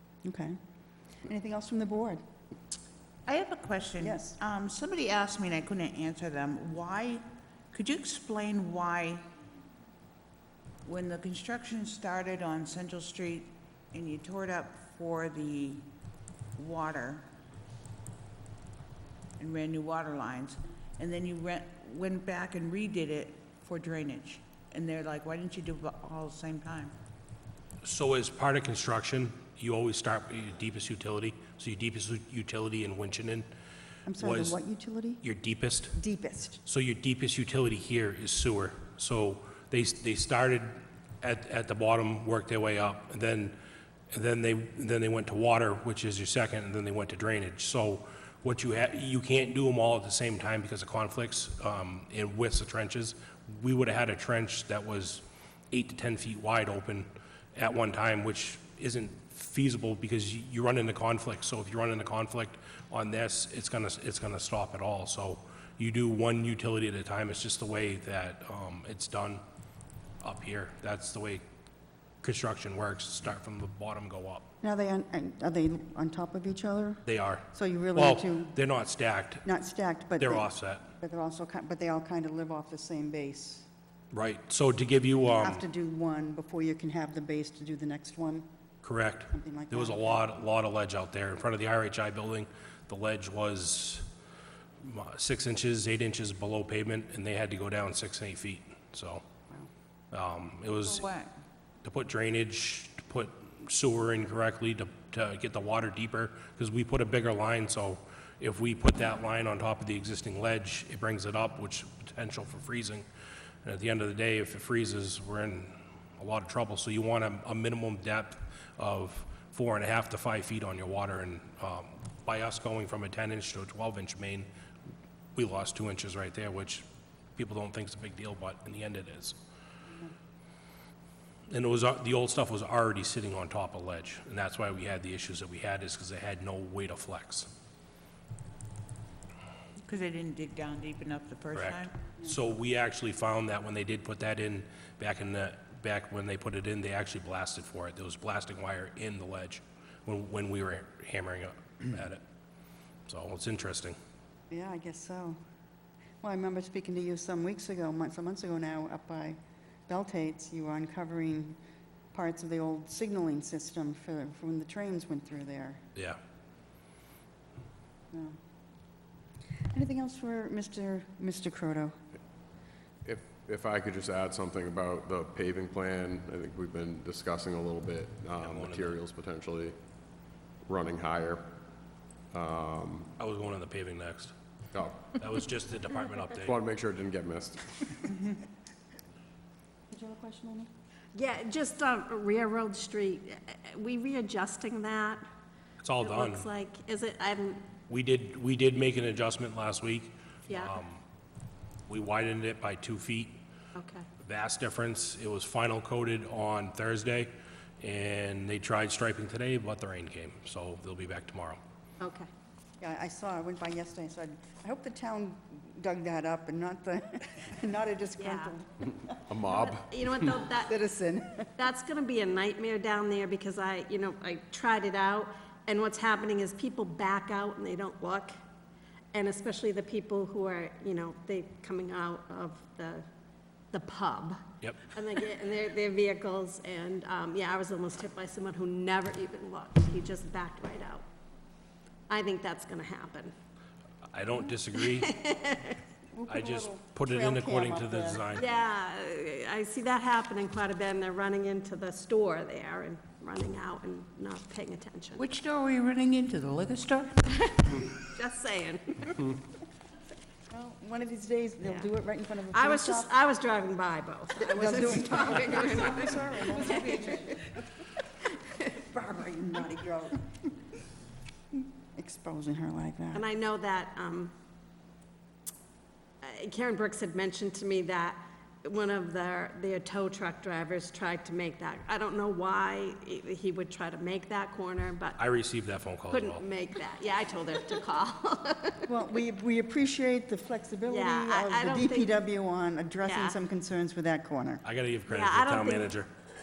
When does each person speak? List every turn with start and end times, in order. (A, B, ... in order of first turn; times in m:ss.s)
0:00.2-0:00.6 A
0:01.2-0:02.2 A
0:03.3-0:09.2 B
0:04.0-0:04.4 A
0:10.8-0:15.9 B
0:16.6-0:17.3 B
0:19.4-0:27.0 B
0:27.8-0:33.4 C
0:34.1-0:35.2 A
0:34.2-0:34.6 C
0:35.2-0:36.0 C
0:36.0-0:36.6 A
0:36.6-0:43.6 C
0:44.1-1:09.4 C
1:10.2-1:11.4 C
1:12.2-1:14.4 C
1:14.6-1:18.6 A
1:17.0-1:19.4 C
1:19.4-1:20.5 A
1:20.2-1:20.9 C
1:21.0-1:23.7 A
1:24.1-1:25.6 C
1:25.4-1:28.5 A
1:28.8-1:34.1 C
1:29.3-1:30.2 A
1:34.8-1:39.2 C
1:40.1-1:41.1 C
1:40.8-1:41.3 B
1:41.8-1:53.0 C
1:53.6-2:04.5 C
2:05.4-2:06.8 C
2:07.4-2:09.4 C
2:11.5-2:17.5 C
2:19.8-2:21.9 B
2:21.5-2:32.2 C
2:33.1-2:34.0 C
2:34.5-2:35.4 A
2:36.2-2:41.6 A
2:42.1-2:45.8 A
2:48.1-2:48.4 A
2:49.7-2:51.9 A
2:53.0-2:59.8 D
2:58.4-2:59.0 C
3:00.7-3:01.5 D
3:02.3-3:03.1 D
3:03.2-3:04.3 C
3:04.7-3:05.2 D
3:05.2-3:06.5 C
3:06.3-3:08.0 D
3:09.9-3:10.7 A
3:11.2-3:15.2 E
3:15.8-3:16.5 C
3:16.0-3:17.7 E
3:17.9-3:21.0 C
3:20.5-3:20.8 E
3:21.9-3:23.4 C
3:23.8-3:24.1 E
3:24.2-3:31.6 C
3:32.0-3:32.3 E
3:32.8-3:39.2 A
3:38.2-3:38.5 E
3:39.3-3:40.3 D
3:39.5-3:40.7 E
3:40.6-3:41.5 A
3:41.6-3:48.3 E
3:49.1-3:53.0 E
3:53.7-3:54.4 E
3:54.6-3:55.0 C
3:54.9-4:01.0 E
4:02.1-4:03.3 E
4:04.1-4:05.1 C
4:04.8-4:05.8 E
4:06.1-4:08.3 A
4:06.3-4:08.5 C
4:08.4-4:15.2 E
4:15.2-4:17.9 B
4:17.3-4:19.3 E
4:20.5-4:23.1 A
4:22.5-4:27.2 E
4:24.6-4:27.5 A
4:26.4-4:27.3 B
4:28.2-4:28.7 E
4:28.8-4:30.2 A
4:32.0-4:33.2 A
4:33.1-4:34.3 E
4:36.2-4:45.2 E
4:45.2-4:46.4 C
4:46.1-4:48.9 E
4:48.9-4:54.6 A
4:50.9-4:52.1 E
4:53.0-4:53.4 E
4:54.6-4:56.1 C
4:55.1-4:56.0 E